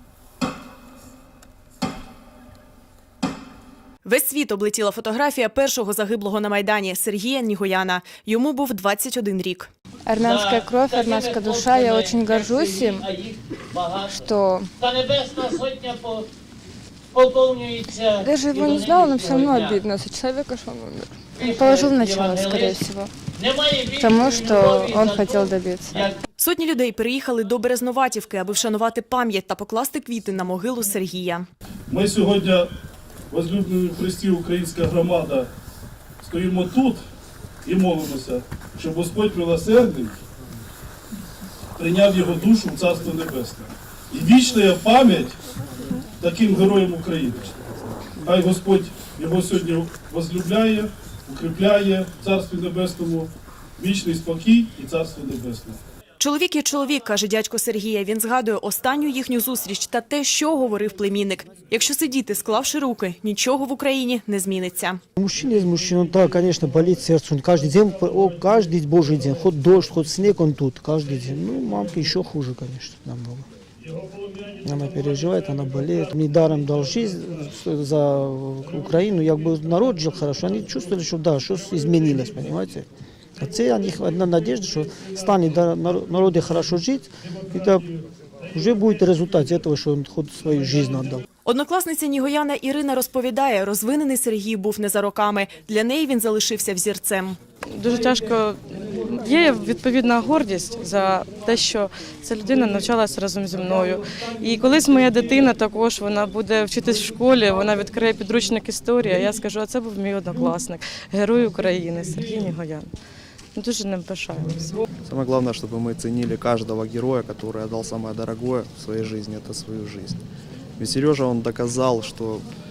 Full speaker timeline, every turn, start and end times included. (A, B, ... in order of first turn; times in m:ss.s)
0:04.0-0:09.7 A
0:10.0-0:13.1 B
0:10.3-0:14.2 C
0:14.0-0:14.7 B
0:14.8-0:16.3 C
0:17.1-0:19.8 C
0:18.2-0:23.1 B
0:21.4-0:22.8 C
0:23.3-0:26.2 C
0:23.9-0:26.0 B
0:26.4-0:31.5 A
0:31.9-0:32.7 D
0:33.3-0:35.5 D
0:36.2-0:37.0 D
0:37.6-0:40.2 D
0:41.8-0:45.4 D
0:46.2-0:47.5 D
0:48.2-0:55.8 D
0:56.2-1:05.0 A
1:05.2-1:13.5 E
1:14.6-1:22.8 E
1:23.4-1:27.9 E
1:28.5-1:31.2 E
1:31.4-1:37.4 A
1:37.7-1:52.9 F
1:53.5-1:54.8 F
1:55.0-2:00.2 G
2:00.8-2:02.5 G